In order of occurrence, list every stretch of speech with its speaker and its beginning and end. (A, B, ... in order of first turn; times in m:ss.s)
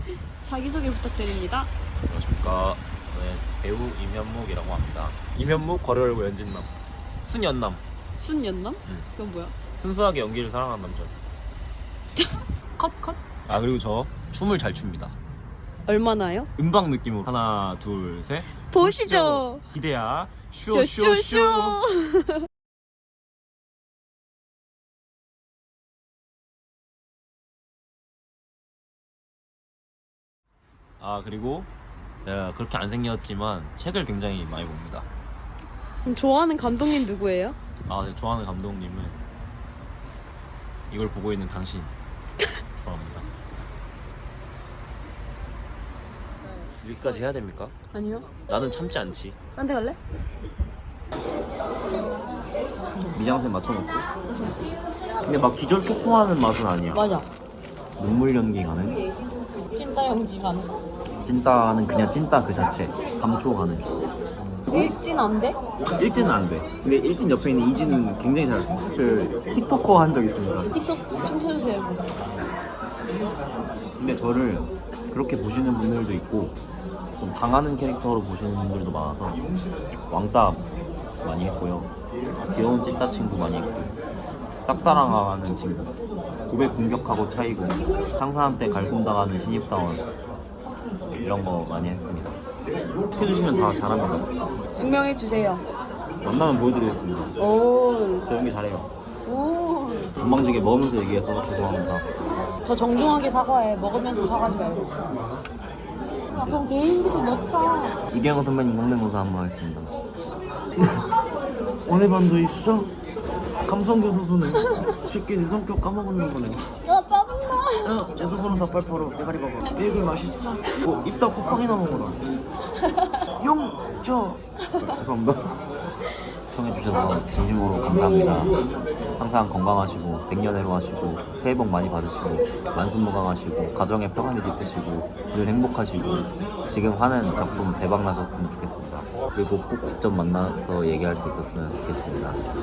0:00.4-0:01.7 A
0:02.0-0:06.7 B
0:07.2-0:07.8 B
0:08.2-0:09.6 A
0:09.7-0:11.1 B
0:12.2-0:12.4 A
0:12.8-0:15.2 B
0:15.8-0:16.5 A
0:16.6-0:21.8 B
0:18.7-0:19.6 A
0:20.7-0:22.5 A
0:31.0-0:31.7 B
0:32.2-0:35.1 B
0:36.0-0:37.6 A
0:37.9-0:39.2 B
0:40.9-0:41.9 B
0:42.8-0:43.3 B
0:46.8-0:47.7 B
0:47.9-0:48.3 A
0:48.4-0:49.4 B
0:49.6-0:50.0 A
0:53.1-0:53.9 B
0:55.2-0:57.0 B
0:56.9-0:57.3 A
0:58.0-0:59.0 B
0:59.7-1:00.7 A
1:01.2-1:03.9 B
1:04.7-1:05.6 A
1:06.0-1:10.7 B
1:10.7-1:12.2 A
1:14.0-1:16.6 B
1:17.2-1:19.4 B
1:20.1-1:20.6 B
1:21.2-1:21.9 B
1:22.5-1:23.9 B
1:24.6-1:25.9 B
1:26.5-1:30.0 B
1:31.2-1:32.4 B
1:33.1-1:34.3 B
1:34.8-1:35.6 A
1:36.2-1:37.4 B
1:37.4-1:38.3 A
1:38.2-1:38.9 B
1:39.2-1:40.2 A
1:40.2-1:42.0 B
1:42.6-1:44.9 A
1:46.3-1:48.0 A
1:46.3-1:46.6 B
1:48.1-1:49.9 B
1:51.8-1:52.9 B
1:53.6-1:56.7 B
1:56.8-1:57.9 A
1:57.8-2:02.2 B
2:03.4-2:05.5 B
2:06.5-2:08.5 B
2:09.2-2:22.4 B